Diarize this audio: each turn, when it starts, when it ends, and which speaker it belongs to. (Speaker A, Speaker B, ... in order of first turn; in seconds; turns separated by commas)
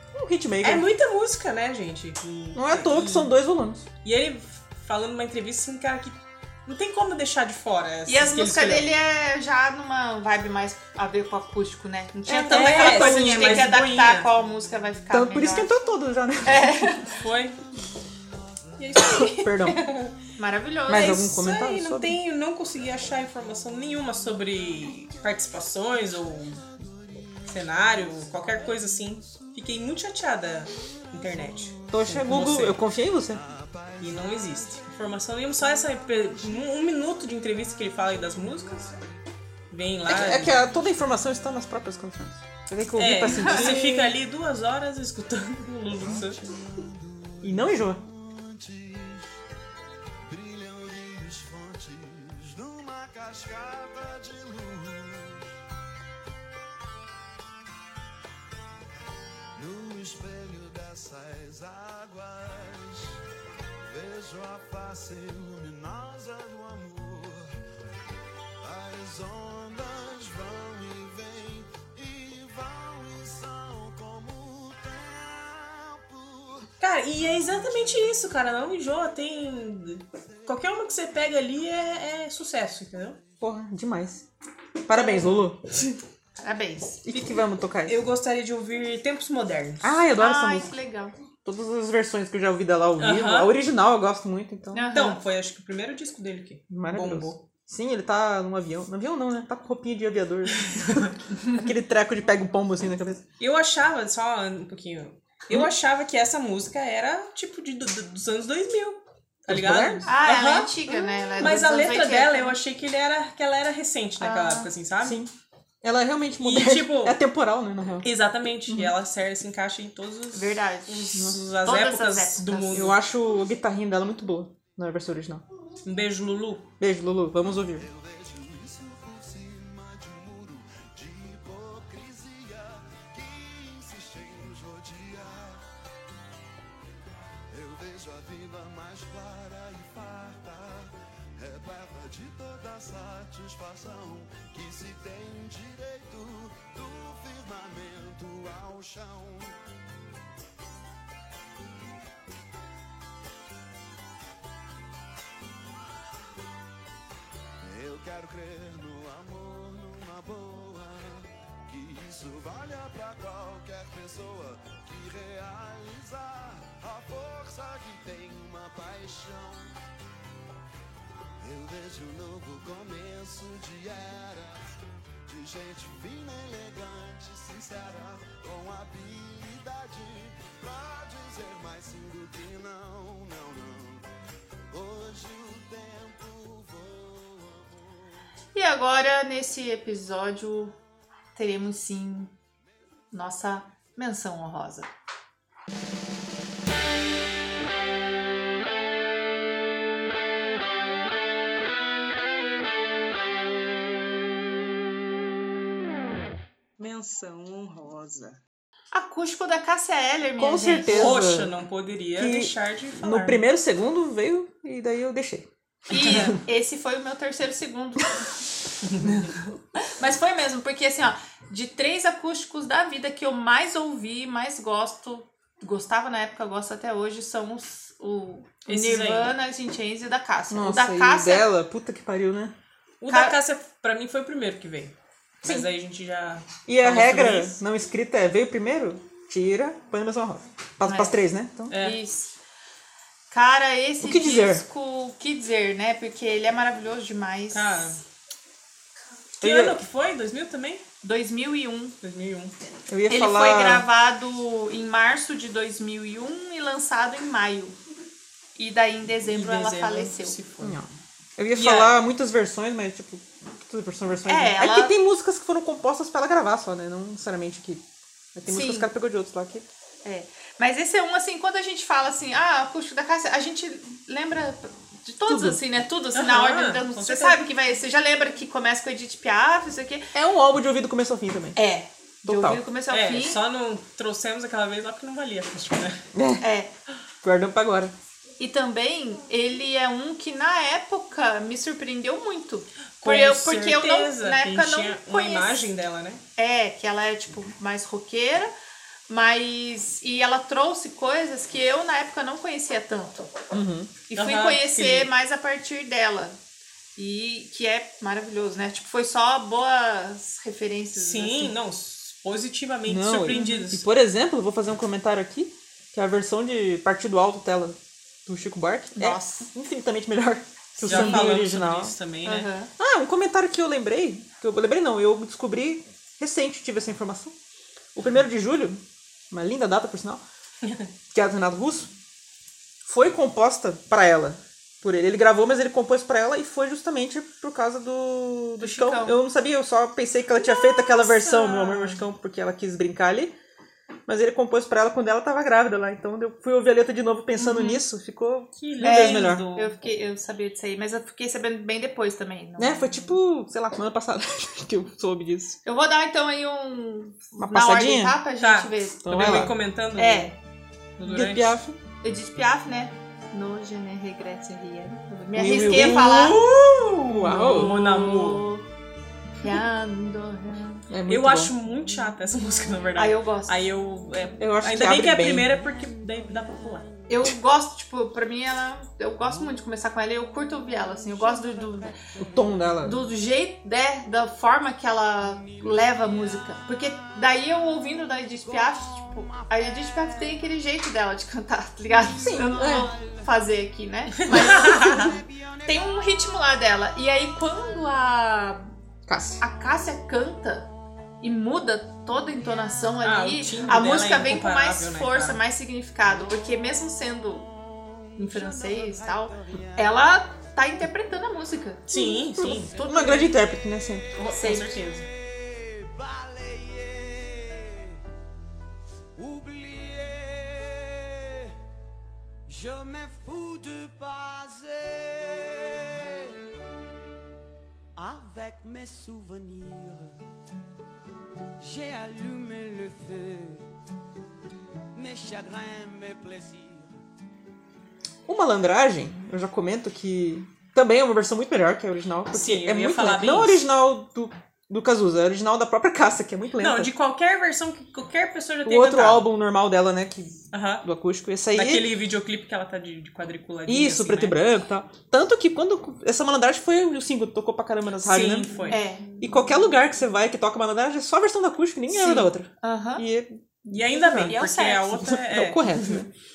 Speaker A: 0.1-0.8, Speaker B: 0.6-3.3, Speaker A: 2.5-3.8, Speaker B: 4.0-8.9, Speaker C: 8.1-15.7, Speaker A: 12.3-13.8, Speaker B: 12.5-14.3, Speaker A: 15.1-16.9, Speaker C: 16.4-17.2, Speaker B: 17.2-17.6, Speaker B: 18.8-20.1, Speaker A: 18.9-19.8, Speaker C: 20.4-21.3, Speaker A: 20.9-22.2, Speaker B: 20.9-26.6, Speaker D: 24.9-25.1, Speaker D: 26.0-29.6, Speaker B: 27.4-32.8, Speaker D: 30.8-32.3, Speaker A: 31.9-33.4, Speaker D: 33.3-36.8, Speaker B: 34.0-39.0, Speaker D: 37.7-39.0, Speaker B: 39.7-40.6, Speaker A: 40.1-44.1, Speaker B: 43.0-46.4, Speaker D: 45.9-49.4, Speaker A: 47.4-48.0, Speaker D: 50.2-55.5, Speaker D: 59.5-63.2, Speaker D: 63.9-67.5, Speaker D: 68.6-76.7, Speaker B: 76.8-83.2, Speaker A: 83.4-84.2, Speaker A: 84.9-85.6, Speaker C: 86.4-87.0, Speaker A: 87.0-88.0, Speaker B: 87.9-90.0, Speaker A: 89.8-90.7, Speaker C: 90.2-91.2, Speaker A: 91.4-94.9, Speaker B: 93.0-93.5, Speaker C: 94.7-95.2, Speaker B: 94.9-97.4, Speaker A: 96.7-103.2, Speaker B: 100.5-101.2, Speaker B: 103.4-115.2, Speaker A: 109.5-110.1, Speaker C: 110.0-112.5, Speaker C: 114.2-114.7, Speaker A: 115.0-115.3, Speaker A: 115.8-118.1, Speaker B: 116.4-117.2, Speaker B: 118.0-122.9, Speaker A: 118.7-118.9, Speaker C: 120.3-122.9, Speaker A: 121.1-121.4, Speaker A: 122.7-125.4, Speaker B: 125.8-126.7, Speaker A: 126.8-127.9, Speaker D: 127.6-135.6, Speaker D: 137.5-149.6, Speaker D: 157.6-169.7, Speaker D: 171.4-174.7, Speaker D: 175.2-184.1, Speaker D: 184.7-187.9, Speaker C: 188.5-190.7, Speaker C: 191.3-192.3, Speaker C: 193.1-194.9, Speaker B: 206.8-208.4, Speaker C: 208.9-211.1, Speaker A: 210.4-211.5, Speaker B: 210.8-213.4, Speaker A: 212.2-215.5, Speaker C: 215.9-218.2, Speaker B: 215.9-216.3, Speaker A: 216.0-216.4, Speaker C: 220.0-231.5, Speaker B: 228.7-229.3, Speaker A: 230.5-232.5, Speaker B: 233.0-237.6, Speaker C: 233.1-233.4, Speaker A: 235.4-235.7, Speaker A: 236.7-241.7, Speaker C: 240.8-241.2, Speaker B: 241.7-242.0, Speaker C: 241.7-242.3, Speaker C: 243.3-248.0, Speaker A: 244.0-244.6, Speaker B: 247.5-248.0, Speaker B: 249.4-250.8, Speaker A: 249.4-249.8, Speaker C: 251.0-252.0, Speaker B: 252.0-252.5, Speaker A: 252.9-253.8, Speaker C: 253.1-257.8, Speaker C: 258.6-260.4, Speaker B: 259.2-260.8, Speaker A: 260.6-267.8, Speaker B: 261.6-262.0, Speaker C: 264.3-264.9, Speaker A: 268.3-269.7, Speaker C: 268.5-268.9, Speaker C: 270.0-280.1, Speaker A: 275.2-275.6, Speaker B: 276.1-277.4, Speaker A: 280.1-281.6, Speaker C: 281.6-283.4, Speaker A: 282.2-282.6, Speaker B: 282.9-286.0, Speaker A: 286.1-286.4, Speaker C: 286.4-286.7, Speaker A: 287.2-287.9, Speaker C: 288.4-295.7, Speaker B: 293.0-296.2, Speaker C: 296.4-298.5, Speaker C: 299.1-303.3, Speaker A: 303.5-303.9, Speaker C: 304.1-306.4, Speaker B: 304.1-305.1, Speaker C: 307.0-311.5, Speaker B: 310.9-313.8, Speaker A: 312.9-321.9, Speaker C: 318.9-319.5, Speaker B: 320.8-322.5, Speaker C: 320.9-321.3, Speaker C: 322.2-322.7, Speaker A: 322.8-327.4, Speaker A: 327.9-330.2, Speaker A: 331.1-331.9, Speaker A: 332.8-343.3, Speaker C: 338.6-339.2, Speaker C: 340.4-341.8, Speaker B: 341.5-341.8, Speaker A: 344.1-349.5, Speaker C: 347.4-347.8, Speaker B: 348.6-349.7, Speaker C: 348.8-353.1, Speaker A: 352.6-355.6, Speaker C: 355.6-360.3, Speaker A: 357.3-358.1, Speaker B: 358.4-360.4, Speaker A: 359.0-359.5, Speaker B: 361.0-361.5, Speaker A: 361.0-361.8, Speaker C: 362.0-366.4, Speaker A: 365.3-366.3, Speaker B: 365.4-368.4, Speaker A: 367.1-367.7, Speaker C: 367.5-368.6, Speaker C: 369.4-370.9, Speaker A: 370.9-371.5, Speaker B: 371.1-376.9, Speaker C: 372.9-373.6, Speaker A: 374.4-375.6, Speaker C: 377.1-382.0, Speaker D: 381.6-382.2, Speaker A: 382.2-383.0, Speaker C: 382.8-398.7, Speaker D: 389.1-389.5, Speaker A: 392.2-392.9, Speaker B: 394.1-395.1, Speaker D: 394.4-395.7, Speaker A: 399.1-399.4, Speaker C: 399.4-400.7, Speaker C: 401.2-407.5, Speaker B: 403.0-405.4, Speaker C: 408.1-413.4, Speaker D: 408.3-409.7, Speaker B: 411.9-412.7, Speaker A: 412.3-414.1, Speaker B: 414.1-415.1, Speaker C: 414.3-414.8, Speaker E: 415.5-417.6, Speaker E: 419.2-420.7, Speaker E: 422.5-425.6, Speaker E: 428.0-430.1, Speaker E: 431.6-433.6, Speaker E: 435.0-436.8, Speaker A: 438.2-446.9, Speaker B: 442.3-443.7, Speaker B: 446.6-449.3, Speaker A: 448.6-451.9, Speaker B: 450.5-450.9, Speaker B: 451.5-454.4, Speaker A: 453.7-466.1, Speaker B: 458.0-458.8, Speaker C: 458.7-459.1, Speaker C: 461.9-463.0, Speaker B: 463.7-466.1, Speaker C: 464.1-465.0